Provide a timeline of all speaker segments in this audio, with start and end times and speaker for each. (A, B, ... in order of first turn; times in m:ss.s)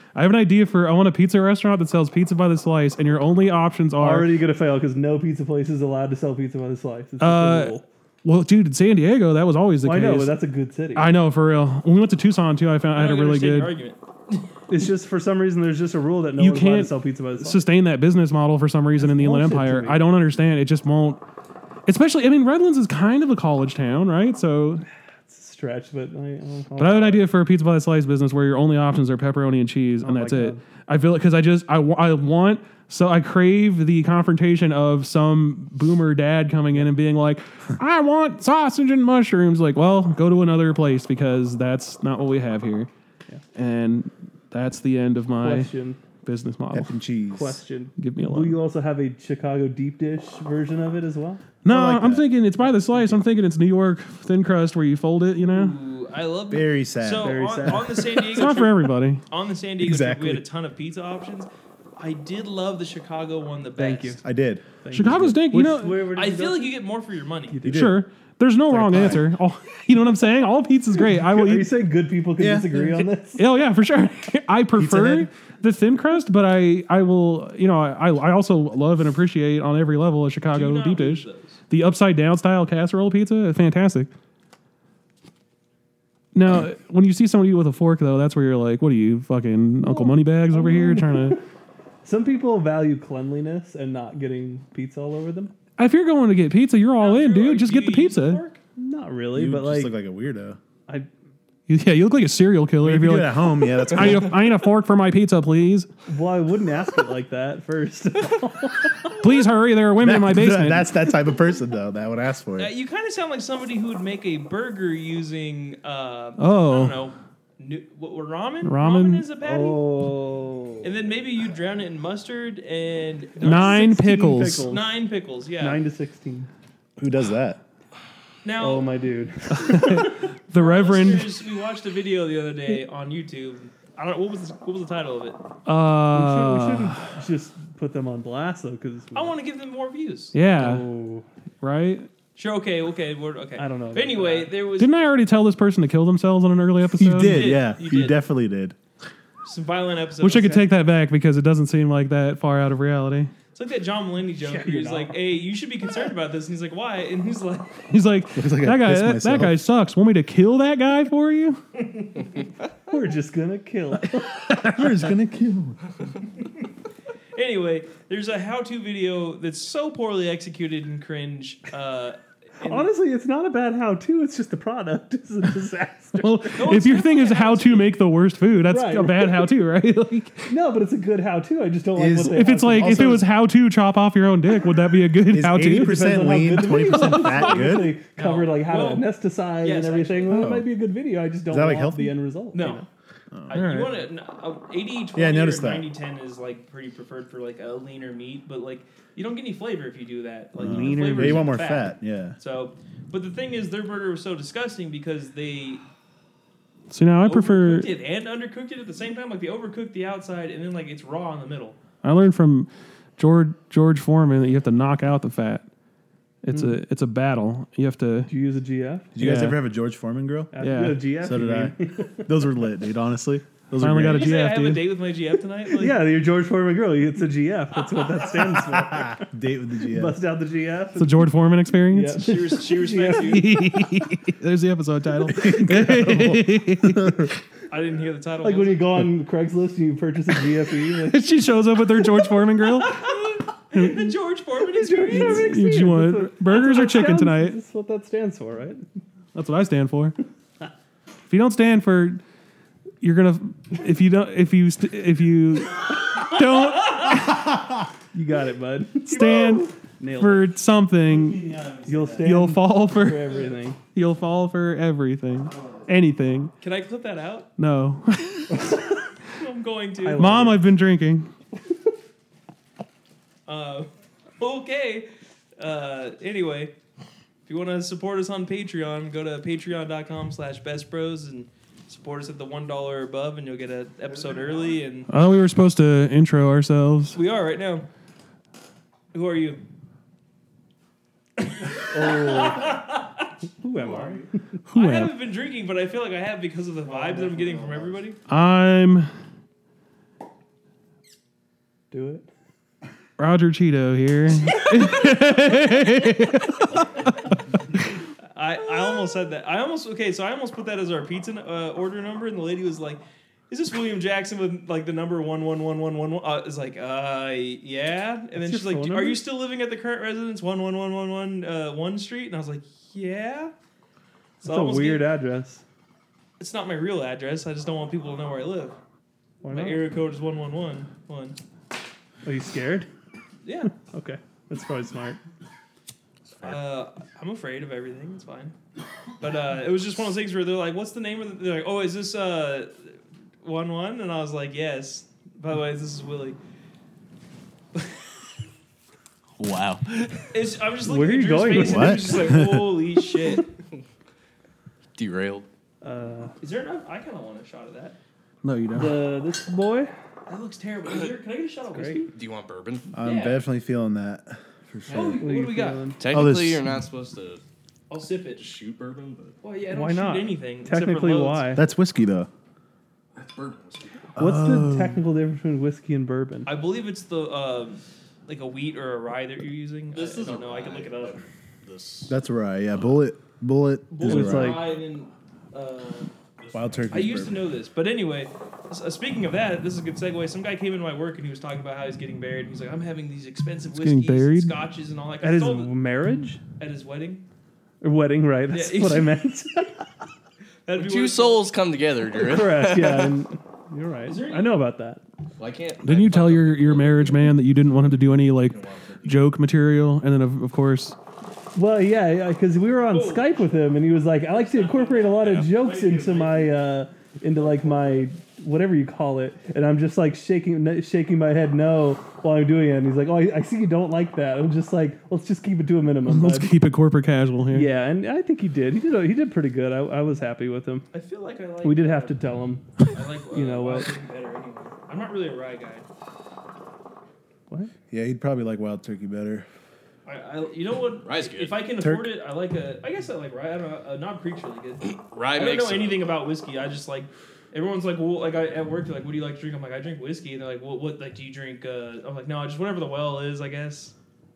0:00.1-0:04.3 A
0:04.0-0:07.8 B
0:07.2-0:10.4 A
0:09.8-0:11.1 B
0:10.9-0:13.7 A
0:12.9-0:14.5 C
0:14.7-0:17.7 B
0:16.4-0:21.2 A
0:19.0-0:20.0 B
0:21.8-0:24.8 A
0:25.3-0:27.2 B
0:26.8-0:42.9 A
0:30.0-0:30.6 B
0:43.5-0:45.7 A
0:45.4-0:46.0 B
0:46.2-0:46.9 A
0:46.7-0:47.6 D
0:47.3-0:51.5 B
0:48.0-0:48.6 A
0:51.6-0:55.7 A
0:51.6-0:52.3 D
0:52.9-0:53.2 B
0:55.4-1:04.2 C
0:56.5-0:57.4 D
0:57.2-0:58.4 B
0:58.2-0:59.2 A
0:59.8-1:00.4 D
1:03.8-1:04.2 B
1:04.2-1:05.4 D
1:04.8-1:06.8 B
1:04.9-1:06.1 A
1:06.1-1:07.6 C
1:07.5-1:07.8 B
1:07.6-1:08.0 D
1:07.6-1:11.7 A
1:08.7-1:09.3 D
1:11.0-1:13.4 B
1:12.4-1:13.0 D
1:13.3-1:24.1 A
1:14.7-1:15.3 D
1:20.5-1:21.6 C
1:26.3-1:31.4 A
1:29.8-1:31.4 B
1:32.0-1:35.5 B
1:35.8-1:38.4 A
1:37.0-1:38.6 C
1:38.8-1:39.9 B
1:39.3-1:40.6 D
1:41.7-1:45.9 A
1:42.8-1:44.4 D
1:46.1-1:49.2 B
1:49.2-1:50.9 A
1:50.0-1:52.7 D
1:52.6-1:59.8 C
1:56.4-1:57.0 A
1:58.6-1:59.2 A
1:59.4-2:00.8 B
2:00.8-2:03.8 C
2:03.4-2:04.9 B
2:03.4-2:04.7 A
2:04.6-2:05.8 C
2:05.6-2:06.5 B
2:07.0-2:07.6 D
2:08.4-2:08.9 C
2:08.6-2:10.1 B
2:09.5-2:11.3 A
2:10.5-2:15.4 C
2:15.6-2:17.0 A
2:16.1-2:19.3 B
2:19.1-2:20.3 C
2:20.3-2:20.9 A
2:20.4-2:21.2 B
2:21.6-2:22.1 A
2:22.3-2:25.0 C
2:23.6-2:24.5 B
2:24.8-2:27.6 A
2:27.0-2:28.8 D
2:27.2-2:28.2 C
2:29.4-2:30.7 C
2:30.2-2:33.3 A
2:33.5-2:37.8 C
2:34.4-2:35.2 B
2:37.9-2:41.6 A
2:38.3-2:39.6 D
2:41.8-2:42.1 C
2:42.9-2:44.2 B
2:44.5-2:45.8 D
2:47.3-2:52.9 C
2:52.6-2:56.7 B
2:56.2-3:00.5 A
2:56.5-2:57.9 C
2:58.7-2:59.5 B
3:00.5-3:03.2 B
3:01.9-3:03.3 D
3:02.2-3:06.0 A
3:05.3-3:08.0 D
3:05.7-3:12.9 B
3:06.9-3:07.4 A
3:08.1-3:10.4 C
3:10.3-3:10.7 D
3:11.5-3:12.2 D
3:12.5-3:12.8 C
3:13.3-3:13.6 D
3:13.5-3:25.8 C
3:13.5-3:14.0 A
3:15.1-3:15.9 D
3:20.6-3:21.4 B
3:20.6-3:22.4 D
3:26.9-3:27.9 A
3:27.2-3:31.8 C
3:32.0-3:35.6 A
3:36.4-3:38.3 A
3:36.5-3:36.8 B
3:38.3-3:39.3 B
3:39.1-3:40.5 D
3:39.2-3:39.5 A
3:40.5-3:42.3 B
3:40.6-3:41.0 A
3:41.0-3:44.3 D
3:43.8-3:44.9 A
3:44.1-3:46.0 C
3:45.7-3:49.3 B
3:48.6-3:50.2 D
3:49.9-3:51.3 B
3:51.0-3:52.4 A
3:51.9-3:53.6 B
3:52.2-3:53.6 C
3:53.1-3:57.3 A
3:55.3-3:57.3 D
3:57.7-3:58.9 C
3:58.4-4:01.2 B
4:01.0-4:03.1 A
4:02.8-4:05.6 C
4:04.7-4:08.8 B
4:05.1-4:07.6 A
4:09.3-4:10.2 A
4:11.3-4:12.2 A
4:13.0-4:17.4 A
4:17.3-4:17.7 D
4:18.1-4:20.5 B
4:19.0-4:21.5 A
4:21.1-4:22.3 D
4:21.8-4:23.8 B
4:22.2-4:26.5 A
4:26.6-4:27.5 C
4:27.6-4:28.7 A
4:29.3-4:30.4 C
4:30.0-4:30.6 B
4:30.2-4:31.3 A
4:33.5-4:36.7 C
4:37.4-4:45.1 C
4:45.1-4:47.2 A
4:47.1-4:47.9 C
4:49.1-4:49.6 C
4:51.4-4:53.3 C
4:51.9-4:52.8 B
4:53.6-4:54.3 B
4:54.6-4:55.1 A
4:54.7-4:58.2 C
4:56.9-4:57.6 B
4:58.3-4:59.1 A
5:01.9-5:02.3 B
5:03.2-5:07.1 A
5:08.3-5:23.5 C
5:18.3-5:19.2 B
5:24.4-5:25.1 C
5:24.4-5:25.6 B
5:26.4-5:28.8 C
5:29.4-5:29.9 B
5:29.5-5:31.4 C
5:32.2-5:32.9 B
5:33.4-5:33.7 C
5:33.7-5:35.2 B
5:36.4-5:38.5 C
5:39.2-5:46.4 C
5:49.4-5:50.3 E
5:50.3-5:53.5 C
5:50.8-5:52.4 B
5:51.5-5:52.7 D
5:55.0-5:55.4 E
5:55.8-5:56.3 B
5:56.4-5:58.0 C
5:58.4-5:59.2 A
5:58.7-5:59.9 B
6:00.3-6:02.1 C
6:01.7-6:02.1 B
6:02.1-6:02.9 E
6:02.9-6:05.2 D
6:03.0-6:03.4 C
6:04.9-6:05.9 C
6:04.9-6:06.0 B
6:06.0-6:07.4 E
6:06.1-6:06.7 D
6:07.9-6:08.4 C
6:08.4-6:09.4 E
6:09.4-6:11.6 C
6:09.7-6:11.6 B
6:11.5-6:12.3 D
6:13.1-6:14.1 E
6:14.2-6:15.1 D
6:14.2-6:16.5 B
6:16.4-6:21.2 C
6:19.9-6:22.2 E
6:22.1-6:24.7 D
6:23.9-6:26.1 C
6:24.0-6:24.8 B
6:26.4-6:27.0 E
6:26.5-6:27.5 D
6:26.9-6:35.7 C
6:33.8-6:34.5 A
6:35.2-6:36.4 B
6:36.6-6:37.2 C
6:37.8-6:39.8 B
6:38.5-6:39.2 C
6:40.6-6:41.5 C
6:40.7-6:43.2 E
6:42.2-6:45.0 B
6:44.0-6:44.6 C
6:45.4-6:47.3 E
6:45.8-6:51.0 A
6:48.4-6:49.2 E
6:51.5-7:06.5 B
6:52.9-6:53.3 C
6:54.2-6:56.6 C
6:55.2-6:55.5 E
7:06.0-7:07.7 A
7:07.5-7:10.9 B
7:10.9-7:12.2 C
7:11.6-7:12.7 B
7:12.9-7:15.8 C
7:13.3-7:14.0 B
7:17.9-7:19.5 D
7:20.0-7:33.9 C
7:21.0-7:21.7 E
7:21.8-7:22.1 D
7:24.8-7:26.2 E